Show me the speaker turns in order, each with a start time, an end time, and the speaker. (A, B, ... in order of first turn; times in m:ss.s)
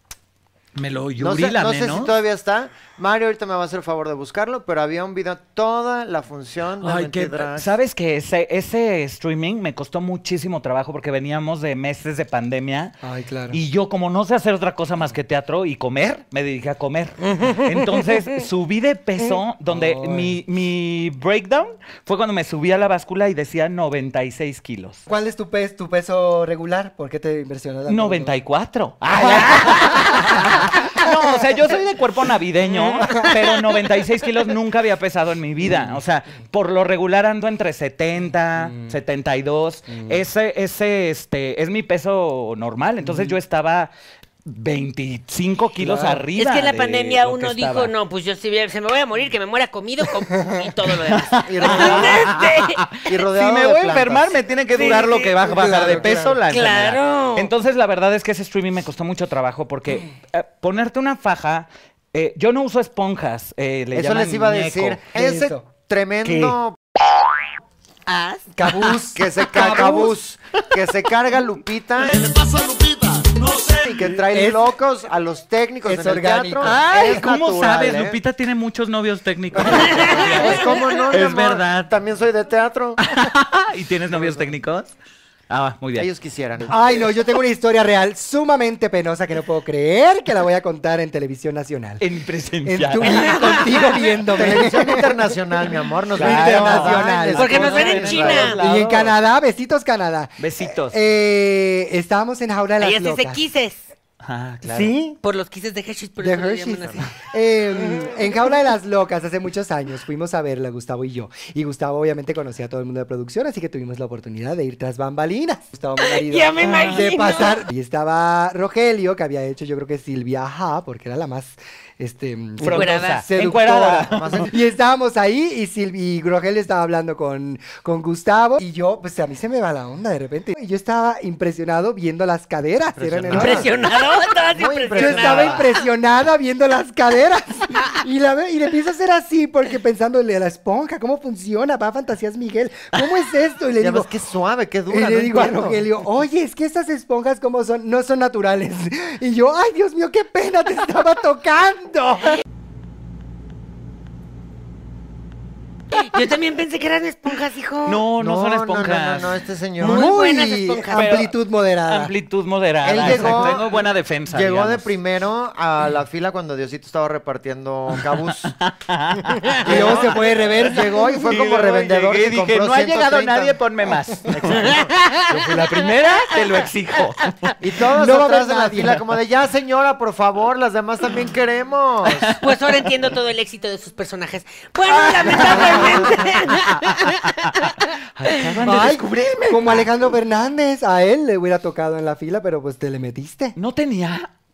0:00.7-0:02.1 A
0:01.2-0:07.7 B
0:06.8-0:13.0 A
0:13.0-0:13.6 C
0:13.5-0:25.0 A
0:17.2-0:18.2 D
0:19.7-0:20.4 C
0:25.1-0:28.4 C
0:27.9-0:43.9 A
0:29.2-0:30.4 C
0:32.6-0:33.4 D
0:35.6-0:36.0 C
0:38.7-0:38.9 C
0:39.9-0:40.2 C
0:43.0-0:43.4 C
0:44.4-0:47.9 A
0:45.8-0:46.2 C
0:46.4-0:52.8 D
0:51.0-1:05.0 A
0:51.4-0:52.4 B
0:53.0-0:55.1 B
0:54.7-0:55.3 D
0:55.2-0:56.4 C
0:55.7-0:56.1 B
0:56.5-0:57.5 D
1:03.9-1:06.8 B
1:05.1-1:05.6 C
1:06.2-1:06.5 A
1:08.1-1:08.4 D
1:08.5-1:10.1 C
1:09.1-1:12.3 B
1:12.2-1:13.6 A
1:13.6-1:18.2 B
1:14.3-1:14.6 C
1:15.8-1:16.8 C
1:16.6-1:21.9 A
1:19.6-1:23.0 B
1:19.7-1:20.5 D
1:23.0-1:24.9 A
1:24.1-1:24.4 B
1:25.5-1:26.1 A
1:26.0-1:26.8 B
1:26.7-1:32.0 C
1:32.0-1:33.6 A
1:32.6-1:35.3 C
1:33.0-1:34.1 D
1:34.3-1:38.6 B
1:36.1-1:39.2 A
1:36.1-1:43.4 C
1:37.3-1:38.6 D
1:40.4-1:41.0 A
1:42.8-1:43.8 D
1:44.2-1:44.9 A
1:44.6-1:45.2 C
1:45.2-1:47.1 D
1:46.2-2:13.7 C
1:47.8-1:48.1 D
1:56.0-1:57.6 D
1:56.6-1:57.0 A
2:02.6-2:04.5 A
2:02.7-2:03.2 D
2:04.1-2:04.5 B
2:13.0-2:13.7 B
2:13.3-2:15.8 D
2:14.5-2:15.7 B
2:14.9-2:24.1 C
2:23.8-2:25.8 B
2:24.9-2:32.4 C
2:36.0-2:38.0 D
2:37.8-2:39.4 A
2:38.2-2:40.1 B
2:39.8-2:41.0 D
2:39.8-2:42.1 C
2:40.9-2:44.9 A
2:42.8-2:43.7 B
2:43.0-2:43.6 C
2:44.3-2:48.5 B
2:47.9-2:57.5 A
2:49.6-2:53.6 B
2:49.6-2:51.2 C
2:54.3-2:54.9 B
2:54.5-2:55.6 D
2:55.3-2:55.8 C
2:57.6-3:02.4 B
2:57.9-2:59.0 C
3:02.0-3:02.4 A
3:02.4-3:08.4 D
3:04.9-3:09.9 A
3:05.5-3:06.0 C
3:08.6-3:13.6 C
3:13.6-3:14.3 A